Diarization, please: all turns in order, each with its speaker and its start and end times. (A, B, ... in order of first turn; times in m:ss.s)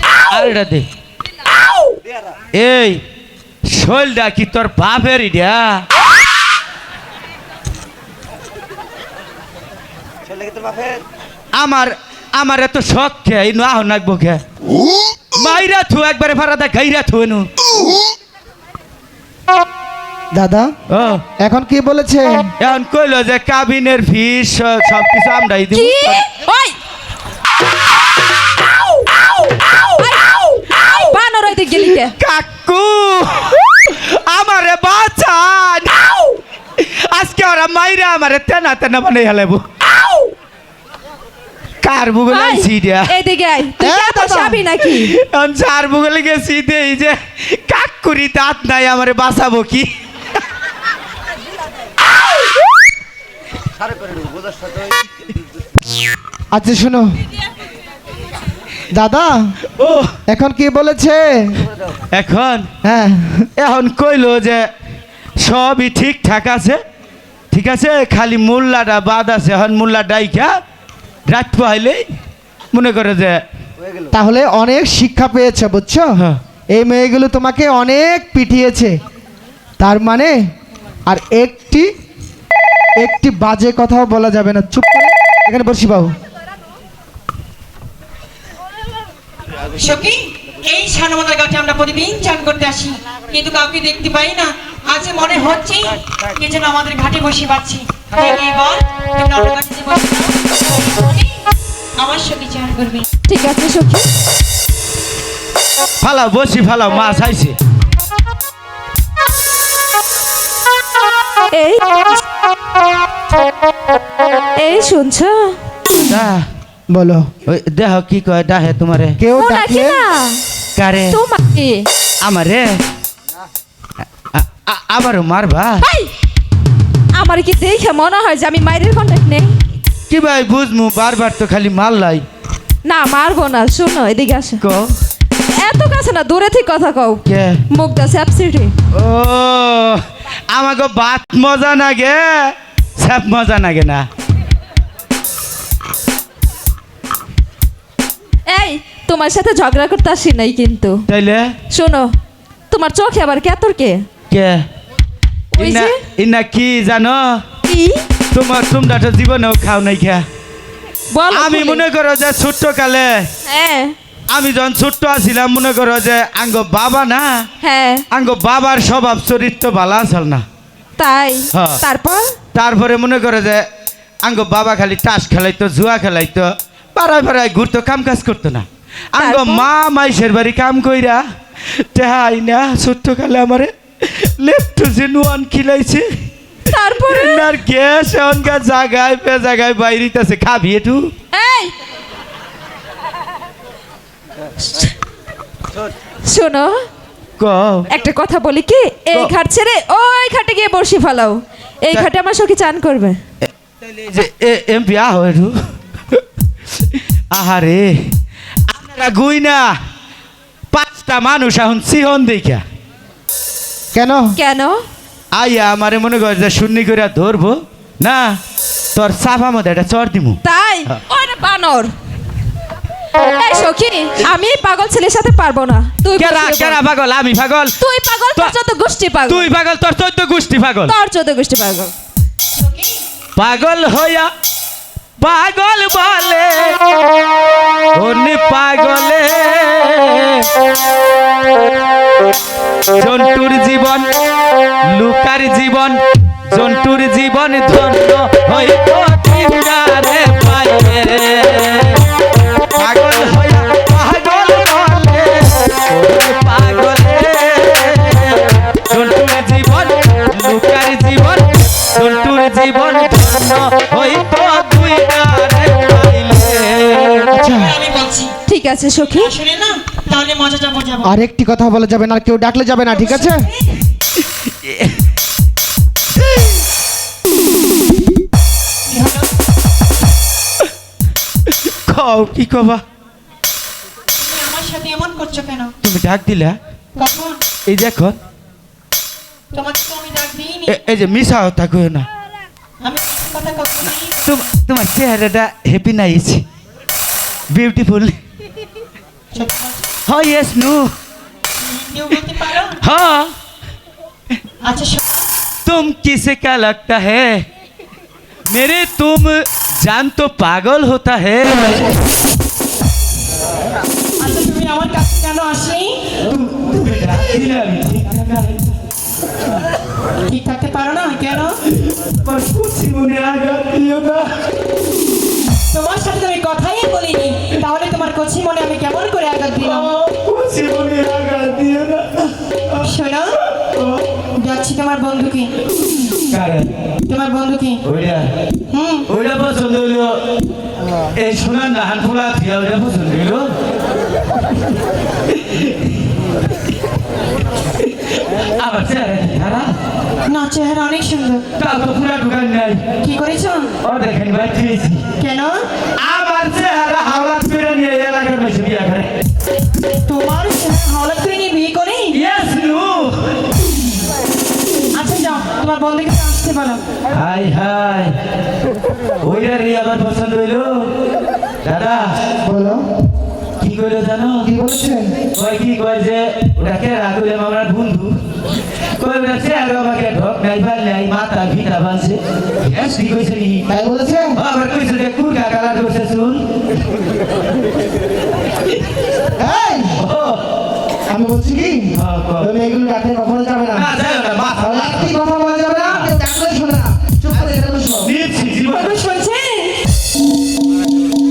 0:00.2-0:00.9 A
0:02.5-0:03.0 A
0:03.7-0:05.8 A
0:11.6-0:14.4 A
0:15.4-0:17.5 A
0:20.3-0:20.7 B
0:20.9-0:21.2 A
0:21.4-0:22.5 B
0:22.6-0:26.2 A
0:25.7-0:26.8 C
0:29.5-0:29.8 A
0:30.0-0:32.1 C
0:32.1-0:39.6 A
0:41.8-0:43.1 A
0:42.3-0:45.2 C
0:43.8-0:44.7 B
0:44.9-0:49.9 A
0:56.5-0:57.1 B
0:58.9-0:59.5 B
0:59.8-1:00.1 A
1:00.3-1:01.6 B
1:02.2-1:02.7 A
1:02.8-1:03.5 B
1:03.6-1:04.7 A
1:05.4-1:06.8 A
1:07.5-1:10.5 A
1:11.3-1:12.0 A
1:12.7-1:13.4 A
1:14.1-1:16.1 B
1:16.7-1:19.0 B
1:19.8-1:20.4 B
1:21.1-1:21.9 B
1:23.0-1:26.1 B
1:29.8-1:41.4 D
1:42.0-1:43.1 D
1:43.3-1:44.1 C
1:46.0-1:47.6 A
1:51.5-1:51.8 C
1:54.6-1:55.6 C
1:55.9-1:56.4 A
1:56.9-1:57.3 B
1:57.5-1:59.2 A
1:59.2-2:00.0 B
1:59.4-2:00.4 C
2:00.8-2:01.2 A
2:01.1-2:01.9 C
2:02.2-2:02.8 A
2:04.3-2:05.8 A
2:05.8-2:06.1 C
2:07.1-2:09.6 C
2:10.1-2:12.2 A
2:12.8-2:14.6 C
2:14.6-2:14.9 A
2:15.5-2:18.7 C
2:17.3-2:17.6 A
2:18.9-2:20.0 A
2:20.5-2:24.1 A
2:28.5-2:31.0 C
2:31.1-2:31.5 A
2:31.7-2:32.1 C
2:32.7-2:34.0 C
2:34.3-2:34.6 A
2:35.6-2:36.0 C
2:35.6-2:37.4 A
2:37.7-2:38.0 C
2:38.3-2:40.2 A
2:41.1-2:41.8 C
2:41.3-2:43.2 A
2:43.5-2:44.0 C
2:44.3-2:47.5 A
2:47.6-2:48.0 C
2:48.1-2:50.4 A
2:51.0-2:52.3 C
2:51.5-2:51.8 A
2:52.6-2:53.6 A
2:54.2-3:01.2 A
2:59.2-2:59.7 C
3:01.7-3:06.0 A
3:06.7-3:07.5 C
3:07.1-3:11.1 A
3:11.3-3:11.7 C
3:16.3-3:16.7 C
3:17.4-3:17.9 A
3:17.9-3:23.2 C
3:24.1-3:25.5 A
3:27.3-3:27.9 A
3:28.7-3:29.7 A
3:30.7-3:32.6 A
3:33.9-3:34.3 B
3:34.4-3:34.8 C
3:35.4-3:38.4 A
3:39.0-3:41.0 A
3:40.4-3:41.9 C
3:43.3-3:46.8 C
3:46.2-3:47.8 A
3:47.8-3:49.5 C
3:49.3-3:50.9 A
3:50.9-3:51.9 C
3:52.5-3:53.0 D
3:53.4-3:54.3 A
3:55.2-3:56.8 A
3:58.0-4:00.5 A
4:03.0-4:04.1 A
4:04.9-4:12.0 A
4:12.7-4:27.5 A
4:27.3-4:27.7 B
4:27.5-4:28.3 D
4:28.5-4:29.3 C
4:29.1-4:31.1 D
4:31.0-4:33.5 B
4:32.9-4:33.8 D
4:34.7-4:35.0 A
4:38.9-4:39.3 D
4:41.9-4:42.8 A
4:44.2-4:45.7 D
4:45.8-4:46.6 A
4:47.0-4:47.4 D
4:47.7-4:48.2 A
4:49.5-4:50.8 D
4:50.7-4:52.1 A
4:52.8-4:54.4 D
4:54.2-4:56.4 A
4:57.5-4:58.2 A
4:59.3-4:59.9 D
5:00.1-5:00.9 A
5:01.6-5:02.8 D
5:02.8-5:03.3 A
5:04.6-5:05.2 D
5:05.7-5:07.4 A
5:08.5-5:12.0 A
5:14.2-5:16.1 D
5:16.2-5:18.8 A
5:20.2-5:21.6 D
5:22.0-5:24.3 A
5:25.7-5:29.9 D
5:29.6-5:32.9 A
5:32.8-5:33.4 D
5:33.6-5:34.2 A
5:34.3-5:35.5 D
5:36.3-5:36.7 A
5:37.1-5:37.8 D
5:37.8-5:38.3 A
5:38.7-5:39.1 D
5:39.1-5:40.2 A
5:41.2-5:43.5 A
5:48.3-5:49.7 A
5:50.3-5:51.4 D
5:51.6-5:52.8 A
5:53.0-5:53.7 D
5:53.8-5:55.0 A
5:55.2-5:55.7 D
5:56.0-5:59.1 A
6:00.0-6:02.2 D
6:02.1-6:03.2 A
6:04.9-6:06.8 D
6:07.1-6:08.1 A
6:09.2-6:10.9 A
6:11.6-6:12.1 A
6:12.4-6:12.8 B
6:13.6-6:14.5 A
6:14.4-6:15.1 B
6:15.4-6:18.1 A
6:19.0-6:23.7 A
6:23.7-6:24.4 B
6:24.4-6:26.4 A
6:29.4-6:30.0 B
6:30.0-6:30.4 A
6:31.1-6:33.9 B
6:31.9-6:32.5 A
6:33.7-6:35.1 A
6:34.5-6:38.1 B
6:38.0-6:39.0 A
6:38.7-6:39.9 D